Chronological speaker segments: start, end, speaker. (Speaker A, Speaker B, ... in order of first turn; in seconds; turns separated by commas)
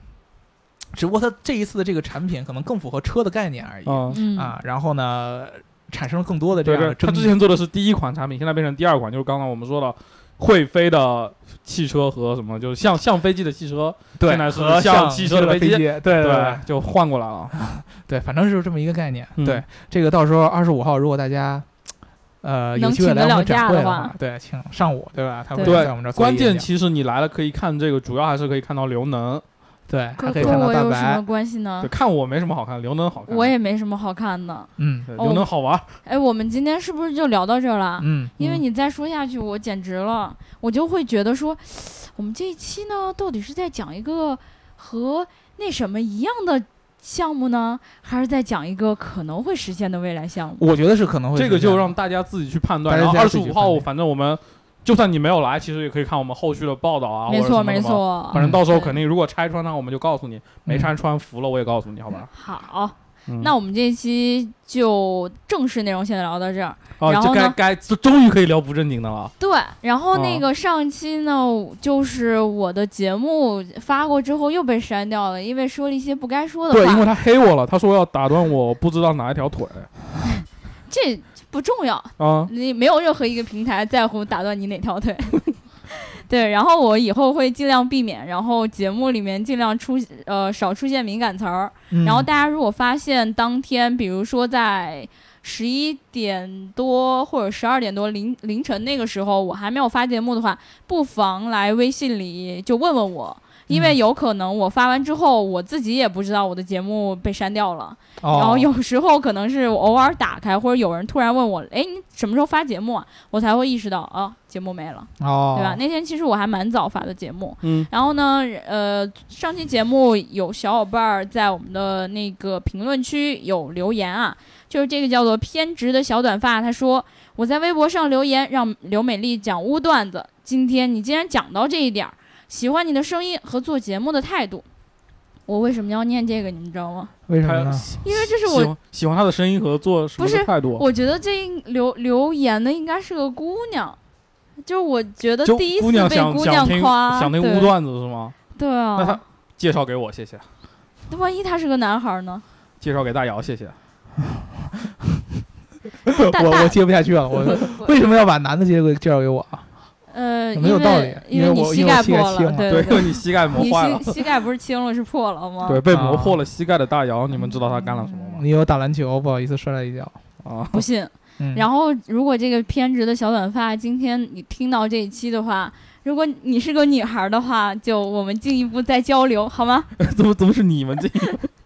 Speaker A: 0.9-7.3, Speaker B: 3.9-4.2, Speaker C: 4.1-4.5, Speaker B: 6.6-17.6, Speaker A: 14.2-16.6, Speaker A: 17.6-21.7, Speaker B: 19.4-19.6, Speaker A: 22.4-26.7, Speaker C: 22.7-24.1, Speaker C: 25.5-25.8, Speaker B: 25.6-29.4, Speaker A: 29.9-31.2, Speaker C: 30.2-31.9, Speaker B: 30.3-30.6, Speaker B: 31.8-33.5, Speaker C: 33.3-35.5, Speaker A: 34.8-35.1, Speaker B: 35.1-35.9, Speaker C: 36.0-50.6, Speaker A: 38.0-38.3, Speaker A: 50.6-51.9, Speaker B: 51.3-62.3, Speaker A: 52.9-53.9, Speaker C: 57.3-59.0, Speaker A: 58.3-58.6, Speaker A: 60.6-60.9, Speaker C: 62.3-67.5, Speaker B: 67.0-69.3, Speaker C: 69.4-77.1, Speaker B: 70.1-70.5, Speaker B: 76.7-79.9, Speaker C: 80.4-134.6, Speaker B: 82.2-82.5, Speaker A: 91.9-92.3, Speaker A: 108.2-108.7, Speaker A: 115.2-115.8, Speaker B: 117.6-117.9, Speaker C: 135.5-137.1, Speaker A: 137.3-137.9, Speaker B: 137.4-140.8, Speaker C: 138.0-138.7, Speaker C: 140.2-144.0, Speaker C: 144.6-147.7, Speaker B: 145.4-148.4, Speaker C: 148.5-149.2, Speaker B: 148.9-150.4, Speaker C: 151.1-152.4, Speaker B: 152.8-153.8, Speaker A: 154.2-155.2, Speaker A: 156.1-159.6, Speaker C: 156.1-156.8, Speaker C: 157.4-157.9, Speaker C: 160.1-165.8, Speaker A: 160.6-163.0, Speaker B: 162.7-164.2, Speaker B: 165.7-168.4, Speaker A: 165.9-166.4, Speaker A: 168.0-170.1, Speaker B: 170.4-170.8, Speaker C: 170.7-179.9, Speaker A: 171.4-171.6, Speaker B: 180.0-181.5